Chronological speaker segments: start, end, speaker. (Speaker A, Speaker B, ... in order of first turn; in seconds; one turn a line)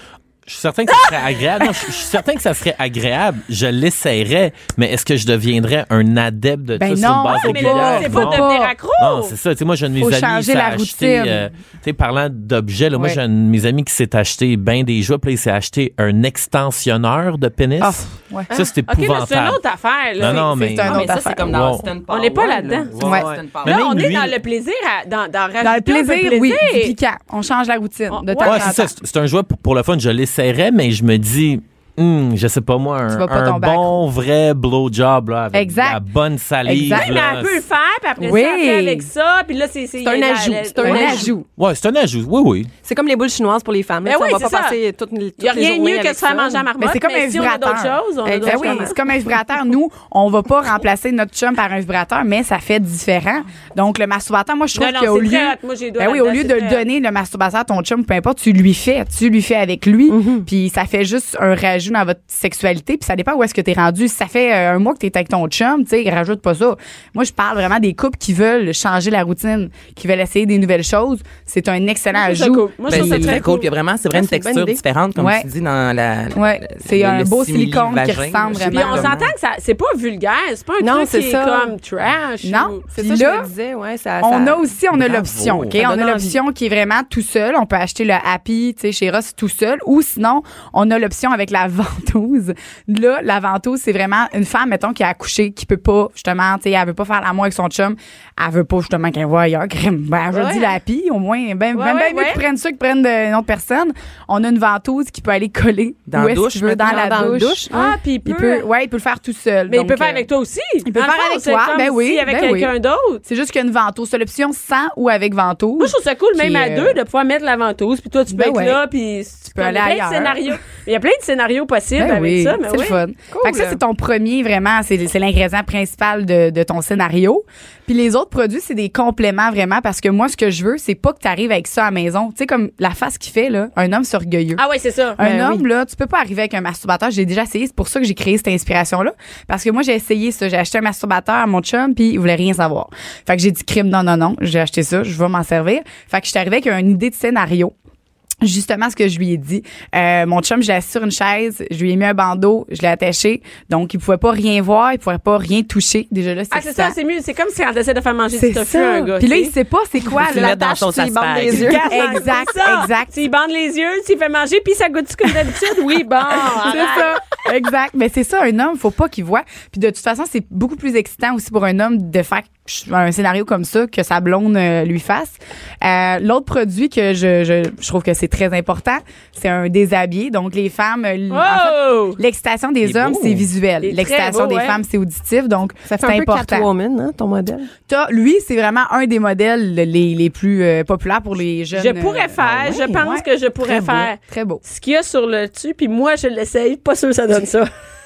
Speaker A: 0.5-19.6
Speaker B: 6.8-8.7
Speaker C: 7.3-9.3
Speaker B: 10.0-11.5
Speaker B: 17.8-18.5
Speaker C: 18.9-20.9
Speaker A: 20.2-21.9
Speaker B: 20.3-21.4
Speaker D: 20.9-24.1
Speaker C: 22.1-22.9
Speaker A: 22.9-24.4
Speaker B: 23.0-23.3
Speaker C: 23.6-26.9
Speaker B: 25.6-28.9
Speaker C: 28.1-28.8
Speaker A: 28.4-37.6
Speaker B: 33.1-34.0
Speaker B: 35.5-36.0
Speaker B: 36.6-37.1
Speaker C: 36.9-41.3
Speaker B: 38.2-39.1
Speaker E: 40.0-41.4
Speaker B: 40.8-41.5
Speaker A: 41.5-42.7
Speaker E: 42.8-46.7
Speaker C: 44.0-44.8
Speaker C: 45.4-49.0
Speaker B: 46.8-73.4
Speaker E: 48.2-49.0
Speaker C: 54.7-56.9
Speaker E: 60.1-60.5
Speaker C: 72.1-73.7
Speaker D: 72.9-79.2
Speaker E: 74.1-74.8
Speaker B: 75.2-75.5
Speaker B: 76.3-79.2
Speaker C: 78.7-82.8
Speaker E: 80.8-81.8
Speaker B: 82.4-83.5
Speaker E: 82.9-84.7
Speaker B: 84.2-110.3
Speaker A: 84.9-85.8
Speaker E: 85.7-86.4
Speaker E: 100.3-100.6
Speaker C: 101.7-102.4
Speaker D: 106.1-107.5
Speaker E: 106.8-107.8
Speaker C: 107.7-108.7
Speaker C: 109.7-113.2
Speaker B: 110.8-112.7
Speaker B: 113.2-117.0
Speaker C: 115.8-123.0
Speaker B: 118.3-118.8
Speaker B: 119.5-120.6
Speaker B: 122.0-134.6
Speaker E: 123.3-123.8
Speaker C: 134.6-135.2
Speaker B: 135.2-147.7
Speaker E: 135.2-135.6
Speaker B: 148.4-156.9
Speaker C: 156.5-159.5
Speaker B: 158.3-160.6
Speaker E: 160.1-162.0
Speaker D: 160.2-161.8
Speaker C: 161.5-167.2
Speaker B: 161.9-163.1
Speaker B: 166.3-186.7
Speaker C: 181.3-182.2
Speaker D: 182.8-183.5
Speaker C: 183.8-184.8
Speaker E: 185.9-187.7
Speaker B: 187.9-194.6
Speaker C: 191.7-197.7